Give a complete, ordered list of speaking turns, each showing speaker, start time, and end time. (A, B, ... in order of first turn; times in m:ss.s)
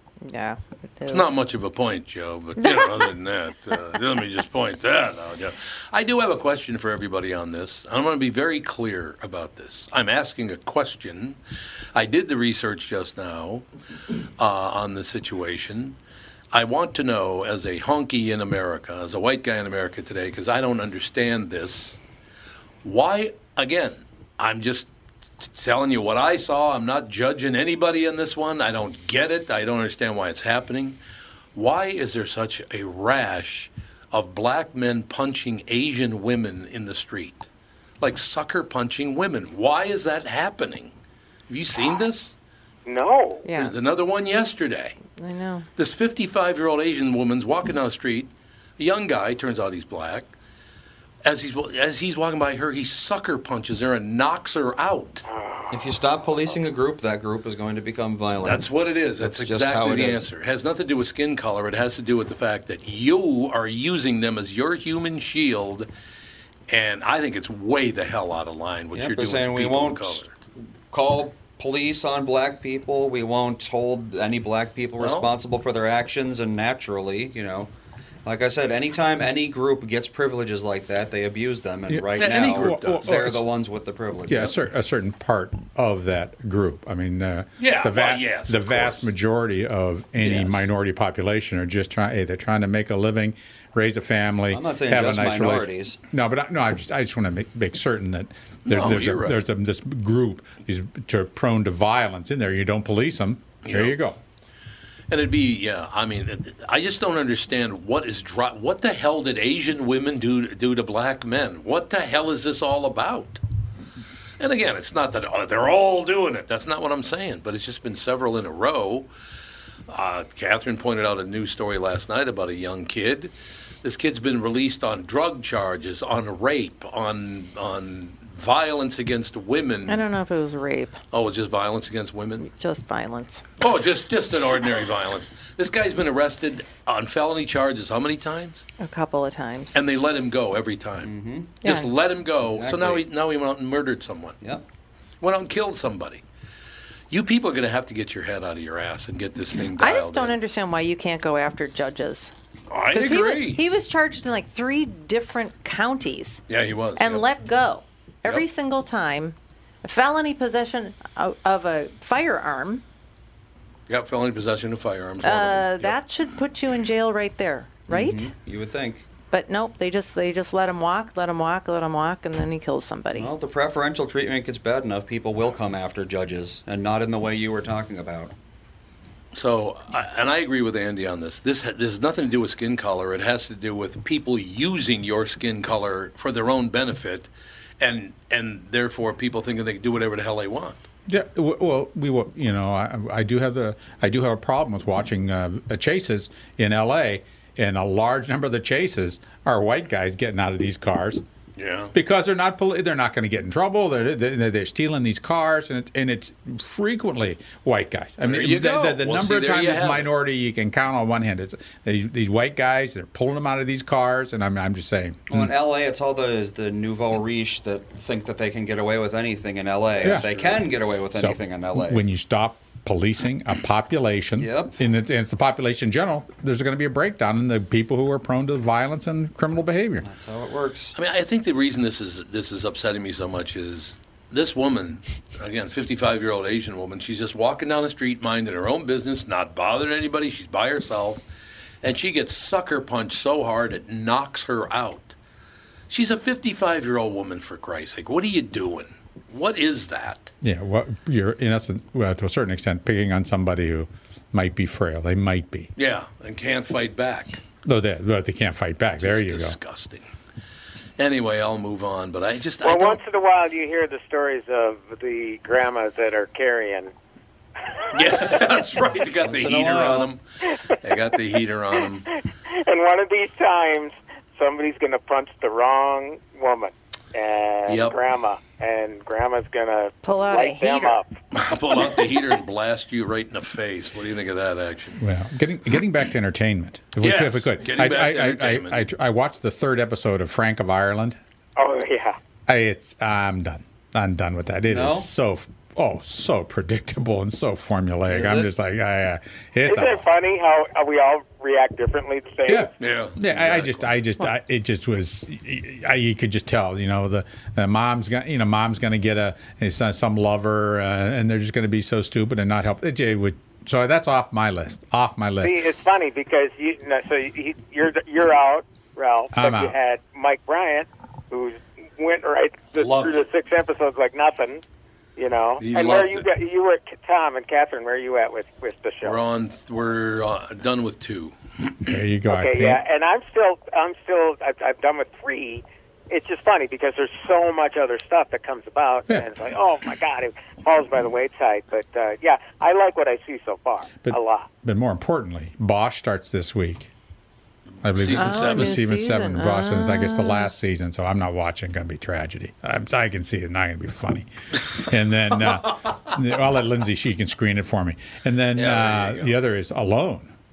0:00.3-0:01.4 A
0:01.1-0:11.4 B
0:02.6-0:03.1 A
0:12.0-0:13.7 B
0:14.4-0:16.0 B
0:16.5-0:22.0 B
0:22.8-0:24.9 B
0:25.4-0:31.0 B
0:31.6-0:37.5 B
0:38.0-0:40.9 B
0:41.5-0:42.3 B
0:42.9-0:43.5 C
0:43.5-0:43.7 A
0:43.6-0:45.0 B
0:45.2-0:45.7 A
0:45.8-0:50.3 B
0:51.2-0:55.2 B
0:55.3-0:55.8 C
0:55.7-0:58.6 D
0:58.4-1:05.9 B
0:59.2-1:00.3 D
1:06.7-1:10.3 B
1:08.9-1:10.2 D
1:10.9-1:17.7 D
1:15.0-1:15.3 B
1:18.2-1:24.6 D
1:21.9-1:23.5 E
1:22.2-1:23.2 B
1:24.3-1:44.2 E
1:27.6-1:29.0 B
1:30.2-1:30.7 B
1:34.5-1:36.0 D
1:38.7-1:39.4 B
1:43.7-1:44.0 B
1:45.1-1:53.4 B
1:54.4-1:59.1 B
1:59.9-2:03.3 B
2:03.8-2:10.0 B
2:09.9-2:11.0 A
2:11.1-2:12.4 B
2:12.4-2:13.4 A
2:13.6-2:18.7 B
2:18.8-2:19.8 A
2:19.7-2:24.4 B
2:21.0-2:21.6 D
2:21.6-2:21.9 A
2:22.4-2:23.0 D
2:25.2-2:26.2 B
2:27.1-2:30.4 B
2:29.8-2:32.3 A
2:32.7-2:33.6 B
2:32.9-2:36.4 A
2:36.5-2:37.2 B
2:37.0-2:42.8 A
2:43.9-2:46.0 B
2:45.2-2:48.3 A
2:47.9-2:49.1 D
2:49.3-2:53.3 A
2:53.1-2:58.3 D
2:59.3-3:07.3 B
3:07.8-3:10.8 B
3:11.1-3:21.2 E
3:21.6-3:21.9 B
3:21.9-3:35.5 E
3:28.2-3:30.1 B
3:35.3-3:42.0 D
3:40.0-3:40.6 E
3:41.1-3:50.1 E
3:44.4-3:44.8 D
3:50.0-3:50.9 D
3:51.0-4:01.2 B
4:01.8-4:05.2 B
4:05.9-4:10.3 B
4:10.4-4:15.7 E
4:15.8-4:17.4 B
4:17.6-4:19.6 E
4:19.0-4:20.1 B
4:21.0-4:23.0 B
4:22.6-4:26.9 C
4:27.9-4:32.1 B
4:29.2-4:30.1 D
4:32.5-4:41.1 C
4:37.7-4:38.0 B
4:40.0-4:41.0 A
4:41.3-4:45.0 B
4:45.0-4:51.2 E
4:47.0-4:48.8 B
4:51.6-4:52.2 C
4:52.5-5:00.0 E
4:54.7-4:55.1 D
4:58.1-4:58.5 D
4:59.7-5:02.7 C
5:02.5-5:15.6 E
5:02.8-5:03.9 B
5:15.4-5:24.6 C
5:19.3-5:19.8 E
5:22.8-5:23.2 B
5:25.2-5:29.2 C
5:25.6-5:26.3 B
5:29.0-5:31.4 B
5:31.9-5:32.8 E
5:32.3-5:44.5 C
5:44.0-5:46.9 E
5:47.8-6:00.3 E
5:47.9-5:48.8 B
5:48.1-5:50.5 A
5:58.6-5:59.4 B